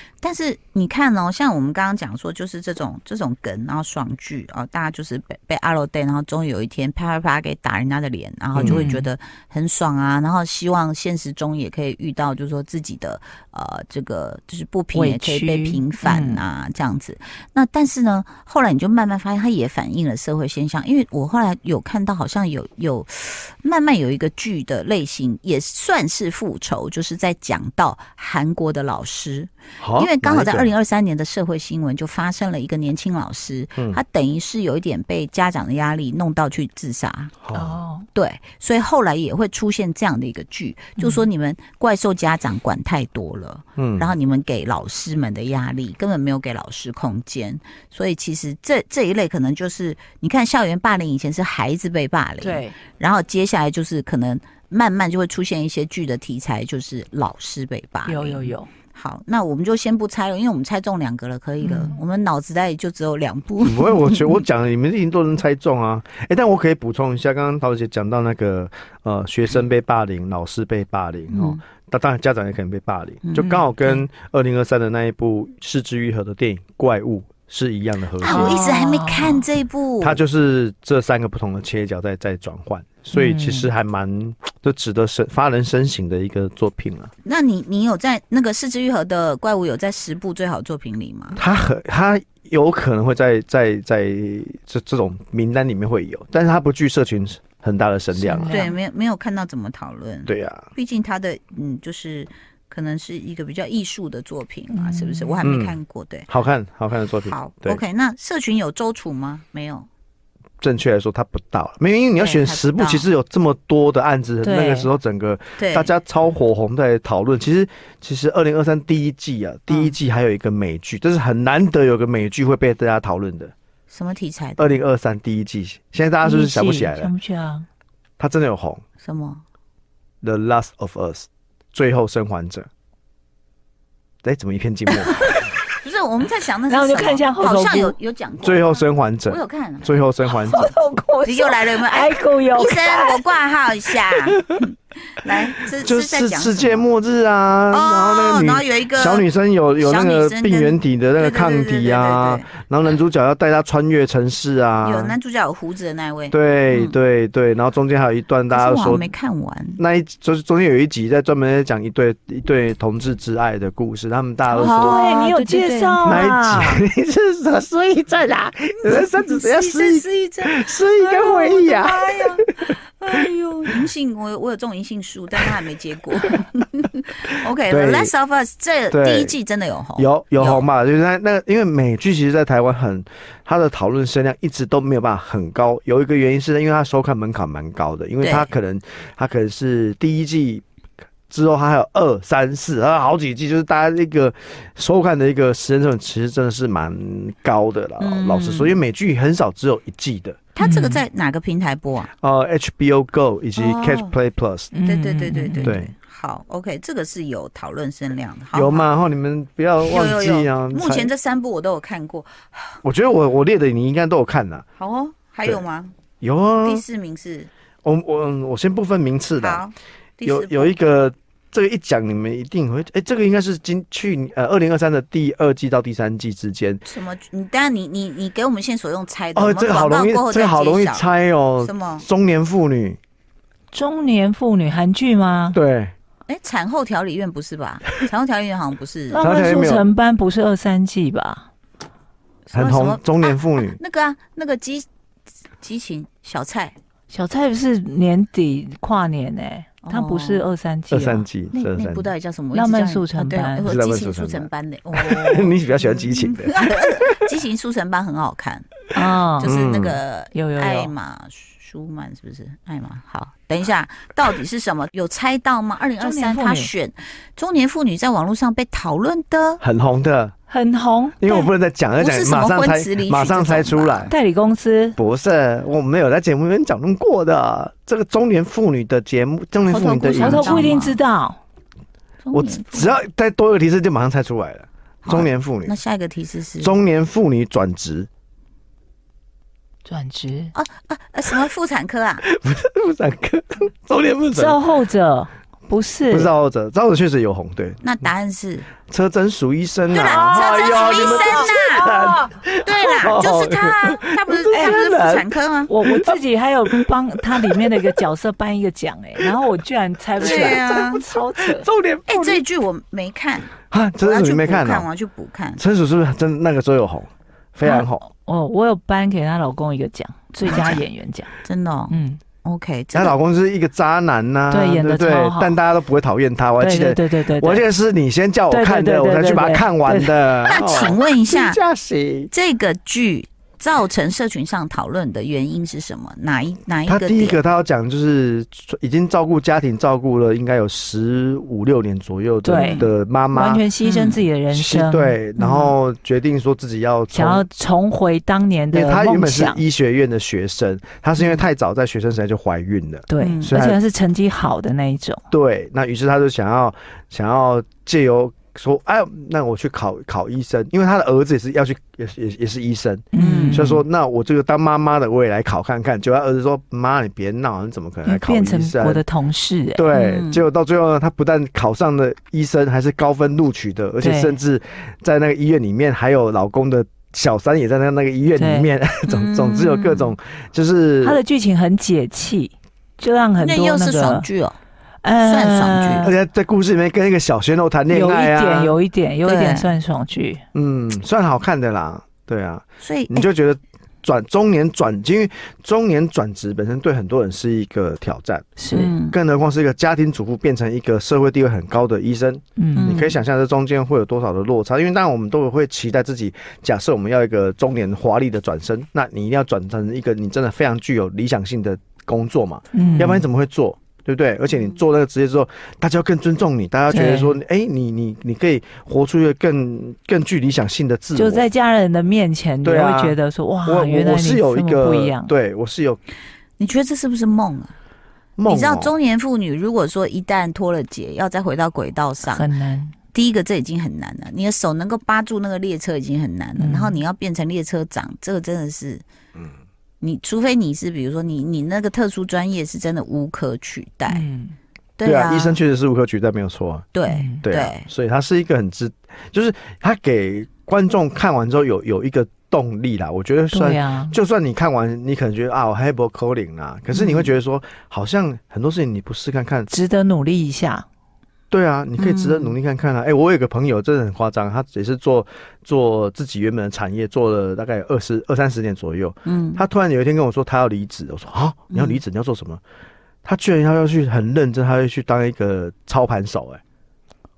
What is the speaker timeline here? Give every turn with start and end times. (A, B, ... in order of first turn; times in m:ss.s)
0:00.2-0:37.3 A
0:08.6-0:08.8 B
0:08.6-0:09.1 C
0:14.9-0:16.4 C
0:29.8-0:30.7 B
0:37.4-0:37.8 B
0:37.5-0:38.1 C
0:38.2-1:04.1 A
0:41.0-0:41.3 C
0:43.8-0:44.1 B
0:52.4-0:52.8 C
0:58.0-0:58.7 C
1:01.6-1:02.0 C
1:03.6-1:18.6 B
1:11.3-1:11.6 A
1:13.4-1:13.9 C
1:18.2-1:20.2 A
1:18.2-1:19.4 C
1:20.0-1:27.1 B
1:23.1-1:23.7 C
1:27.2-1:31.4 A
1:31.4-1:38.5 B
1:38.1-1:38.8 C
1:38.5-1:46.3 A
1:40.3-1:40.7 B
1:44.7-1:45.5 C
1:45.4-1:45.8 B
1:46.3-1:47.8 B
1:47.2-1:49.9 A
1:50.6-2:03.5 B
1:52.2-1:53.1 A
1:54.4-1:54.9 C
1:55.6-1:55.9 A
2:03.9-2:04.8 A
2:04.6-2:07.1 B
2:06.2-2:07.7 C
2:08.2-2:08.8 B
2:09.0-2:09.4 A
2:10.2-2:12.7 B
2:14.2-2:15.4 B
2:14.9-2:15.6 C
2:15.7-2:20.0 A
2:16.7-2:18.0 C
2:18.4-2:20.7 B
2:20.2-2:23.3 C
2:21.2-2:26.9 A
2:25.7-2:35.2 B
2:27.7-2:32.5 A
2:34.8-2:37.0 A
2:36.3-2:39.1 B
2:38.5-2:39.8 A
2:39.8-2:45.1 B
2:44.5-2:46.2 A
2:44.6-2:46.8 C
2:46.0-2:52.7 B
2:48.8-3:00.7 A
2:57.7-2:58.1 B
2:58.9-2:59.4 B
3:00.0-3:10.6 B
3:08.2-3:08.5 A
3:11.3-3:20.4 B
3:18.0-3:18.8 A
3:20.6-3:22.1 A
3:20.6-3:21.0 C
3:22.2-3:24.7 B
3:23.6-3:24.1 A
3:24.7-3:25.8 C
3:24.8-3:28.9 A
3:25.6-3:25.9 B
3:28.5-3:31.1 B
3:29.8-3:32.8 A
3:32.8-3:34.6 B
3:34.8-3:35.9 A
3:36.2-3:36.8 B
3:36.6-3:37.5 A
3:37.8-3:39.6 B
3:39.4-3:40.8 A
3:40.2-3:46.8 B
3:46.8-3:51.1 A
3:49.4-3:53.0 B
3:51.6-3:52.1 A
3:53.7-3:55.6 C
3:55.5-3:55.9 B
3:56.3-3:59.3 A
3:59.1-4:01.5 C
3:59.2-3:59.9 B
4:02.5-4:04.9 A
4:02.5-4:03.8 B
4:05.6-4:06.8 A
4:07.1-4:11.3 C
4:09.8-4:10.4 A
4:10.9-4:12.1 B
4:11.5-4:18.8 A
4:12.5-4:13.7 C
4:13.6-4:17.0 B
4:18.9-4:19.5 C
4:19.4-4:20.0 B
4:19.4-4:29.6 A
4:20.3-4:20.9 C
4:26.0-4:26.7 C
4:29.6-4:30.3 B
4:30.5-4:31.2 C
4:31.2-4:34.1 B
4:31.3-4:34.1 A
4:34.1-4:35.0 C
4:35.0-4:40.8 B
4:39.7-4:41.0 A
4:40.1-4:41.4 C
4:42.2-4:43.0 A
4:42.3-4:45.8 B
4:45.0-4:46.8 A
4:46.6-4:48.1 B
4:49.9-4:50.5 C
4:50.6-4:52.2 A
4:52.2-4:54.6 B
4:54.4-4:56.3 C
4:56.1-4:57.8 B
4:57.8-4:58.7 A
4:58.9-5:05.3 B
4:59.9-5:02.0 A
5:00.0-5:02.3 C
5:02.6-5:05.7 A
5:04.5-5:04.9 C
5:05.7-5:11.7 C
5:05.8-5:07.9 B
5:10.2-5:12.4 B
5:10.2-5:11.0 A
5:12.1-5:15.6 A
5:13.7-5:14.9 B
5:15.6-5:18.1 B
5:17.6-5:21.3 C
5:20.5-5:20.8 A
5:21.4-5:23.2 A
5:21.9-5:22.2 C
5:22.9-5:32.3 B
5:24.5-5:25.6 C
5:26.6-5:27.6 C
5:28.5-5:30.6 C
5:30.5-5:31.6 A
5:32.3-5:37.4 A
5:36.9-5:43.7 B
5:42.4-5:45.7 C
5:42.5-5:42.9 A
5:43.8-5:44.2 A
5:44.5-5:47.4 B
5:47.1-5:49.6 C
5:48.7-5:53.8 B
5:53.1-5:55.2 C
5:53.2-5:53.6 A
5:55.3-6:09.0 B
6:03.1-6:03.8 C
6:03.2-6:03.6 A
6:08.0-6:09.8 C
6:09.8-6:21.2 B
6:09.9-6:10.4 A
6:14.0-6:14.4 C
6:18.4-6:18.7 C
6:19.1-6:20.1 A
6:21.0-6:24.3 C
6:23.4-6:24.6 A
6:25.0-6:26.1 C
6:25.2-6:26.1 A
6:26.0-6:28.8 B
6:27.9-6:30.4 C
6:29.2-6:29.7 A
6:30.5-6:38.6 B
6:32.8-6:33.3 A
6:38.6-6:38.9 C
6:38.7-6:39.2 A
6:39.1-7:01.5 B
6:42.6-6:42.9 C
6:42.8-6:43.2 A
6:52.7-6:53.2 C
6:56.9-6:57.4 C
7:01.2-7:05.3 C
7:02.6-7:06.0 B
7:06.6-7:07.7 A
7:08.4-7:08.9 B
7:08.5-7:12.5 A
7:12.3-7:12.9 C
7:13.1-7:19.0 A
7:16.6-7:17.0 C
7:20.0-7:24.2 A
7:24.1-7:24.6 C
7:25.0-7:25.6 A
7:25.0-7:26.9 B
7:26.9-7:27.9 A
7:27.1-7:27.4 C
7:27.4-7:39.7 B
7:33.5-7:34.2 C
7:36.9-7:37.3 A
7:39.7-7:40.8 C
7:41.5-7:52.6 B
7:42.0-7:42.6 A
7:49.2-7:49.6 A
7:51.7-7:52.0 A
7:53.2-7:56.6 B